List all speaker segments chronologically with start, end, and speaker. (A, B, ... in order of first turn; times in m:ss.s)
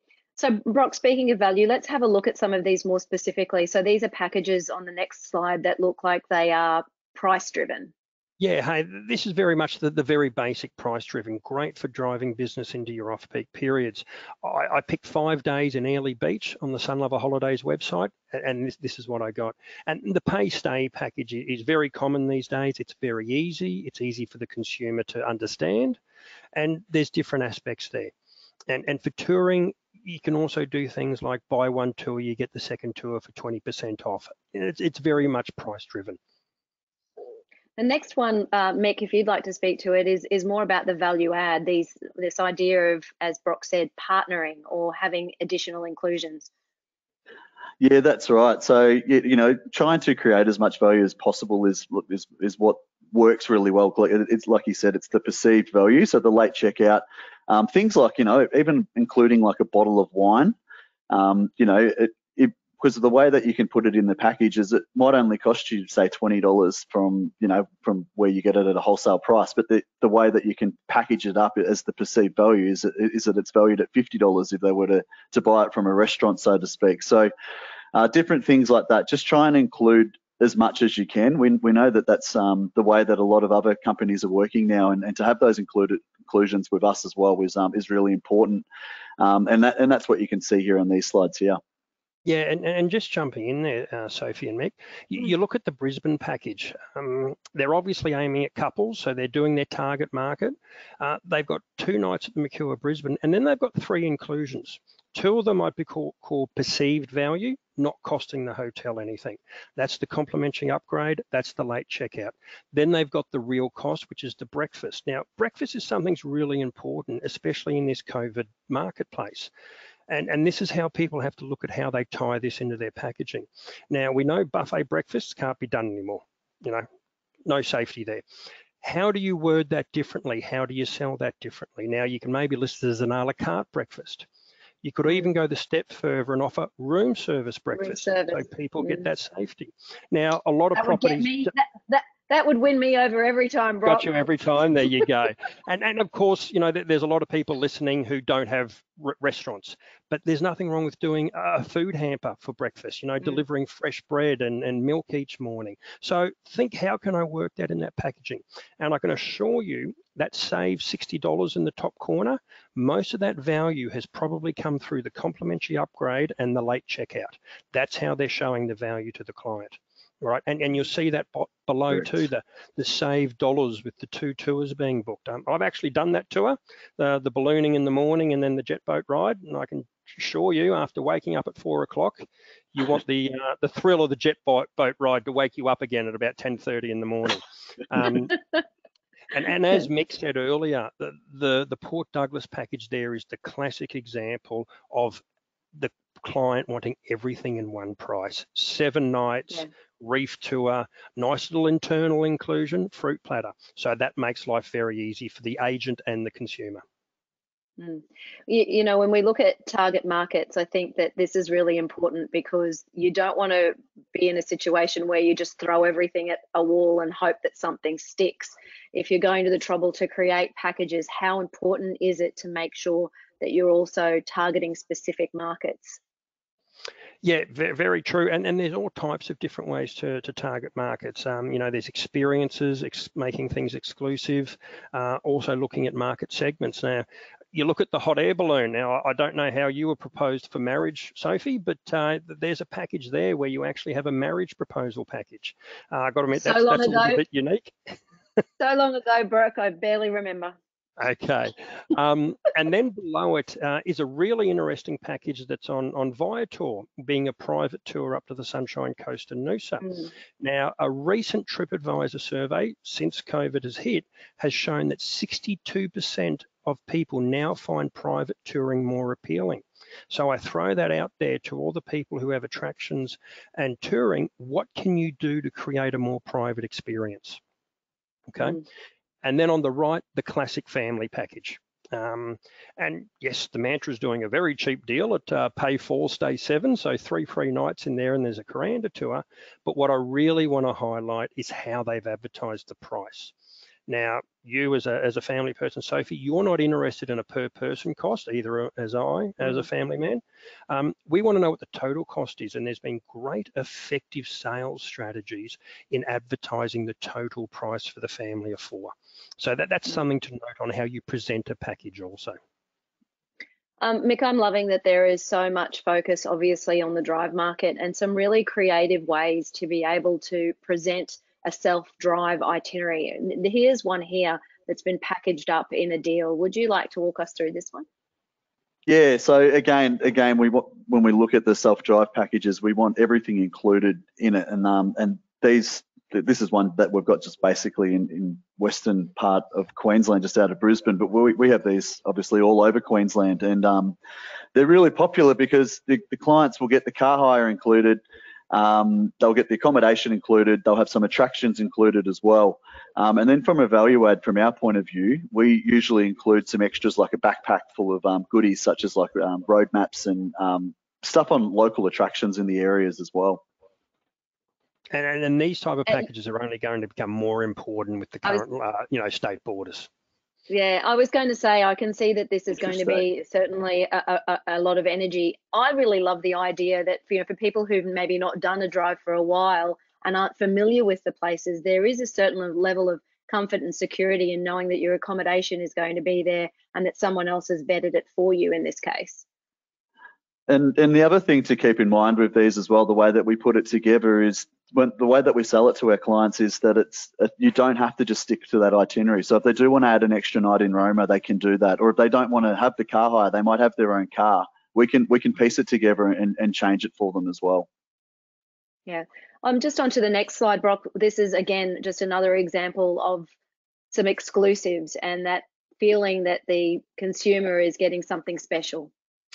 0:00.4-0:07.9 A
0:08.4-0:26.0 B
0:26.5-0:28.1 B
0:28.7-0:36.2 B
0:37.8-0:46.5 A
0:47.8-1:00.6 C
1:01.1-1:17.3 C
1:17.9-1:28.6 C
1:29.2-1:31.6 C
1:32.2-1:59.5 B
2:00.1-2:06.8 B
2:07.4-2:08.2 B
2:08.8-2:14.3 B
2:14.8-2:21.5 B
2:17.8-2:19.0 A
2:20.8-2:24.2 A
2:23.8-3:08.4 B
3:09.3-3:15.2 B
3:15.7-3:26.8 B
3:27.8-3:46.0 A
3:47.2-4:07.8 B
4:06.4-4:07.2 A
4:08.6-4:10.6 A
4:11.0-4:37.4 B
4:38.3-4:38.6 B
4:39.2-4:53.3 B
4:53.9-5:12.4 B
5:13.8-5:27.9 A
5:28.9-5:44.0 C
5:44.6-6:03.4 C
6:04.9-6:09.9 B
6:10.5-6:29.2 A
6:30.5-6:47.7 C
6:48.9-6:53.3 A
6:53.9-6:58.9 A